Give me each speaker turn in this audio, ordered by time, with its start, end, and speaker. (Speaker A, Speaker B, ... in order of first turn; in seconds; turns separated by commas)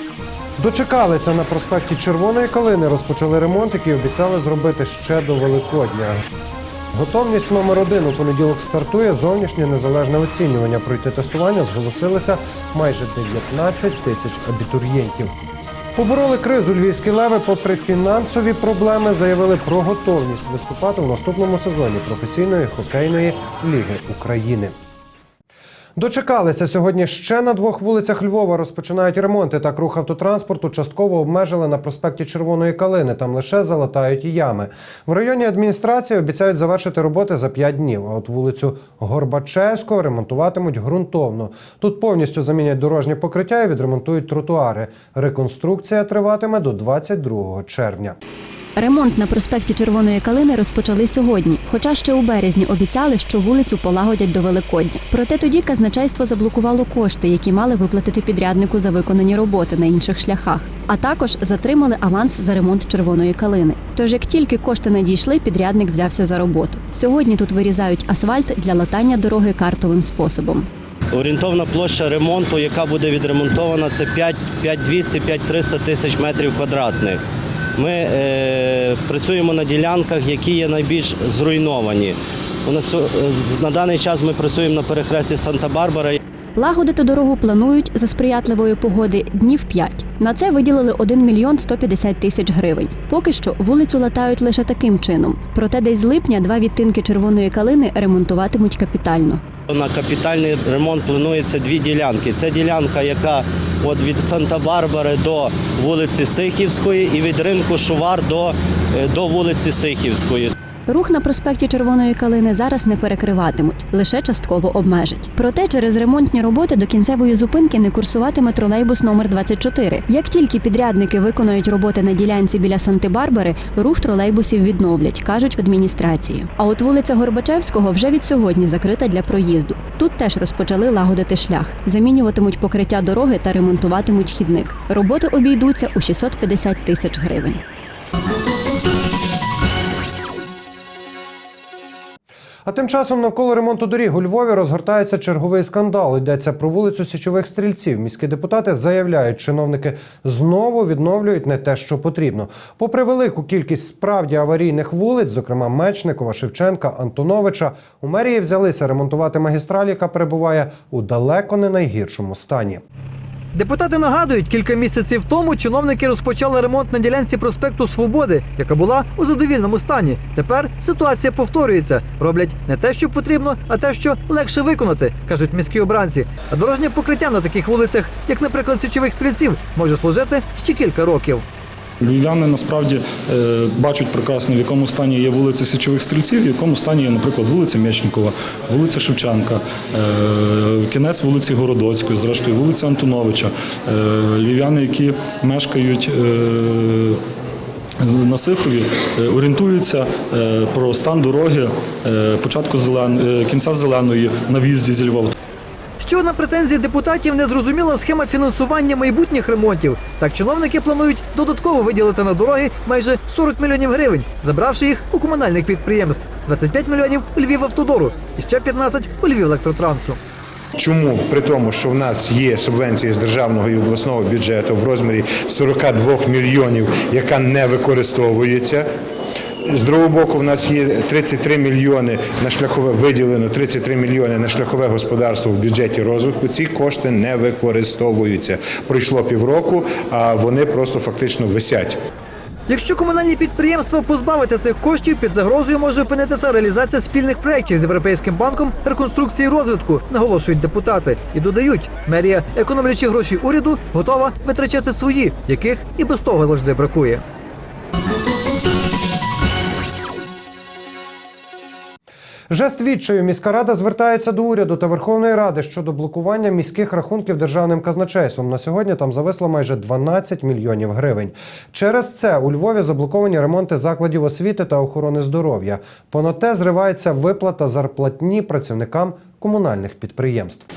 Speaker A: 0.6-6.2, Speaker A: 6.9-15.3, Speaker A: 15.9-24.7, Speaker A: 26.0-48.2, Speaker B: 48.8-70.7, Speaker C: 71.1-77.2, Speaker C: 77.8-86.2, Speaker B: 86.5-99.4, Speaker C: 99.7-110.5, Speaker B: 110.9-137.6, Speaker A: 142.7-162.8, Speaker D: 163.5-181.4, Speaker E: 182.0-197.2, Speaker E: 198.0-205.3, Speaker D: 206.0-220.2, Speaker F: 220.8-228.9, Speaker F: 229.6-242.0, Speaker D: 242.7-257.2, Speaker A: 262.5-280.6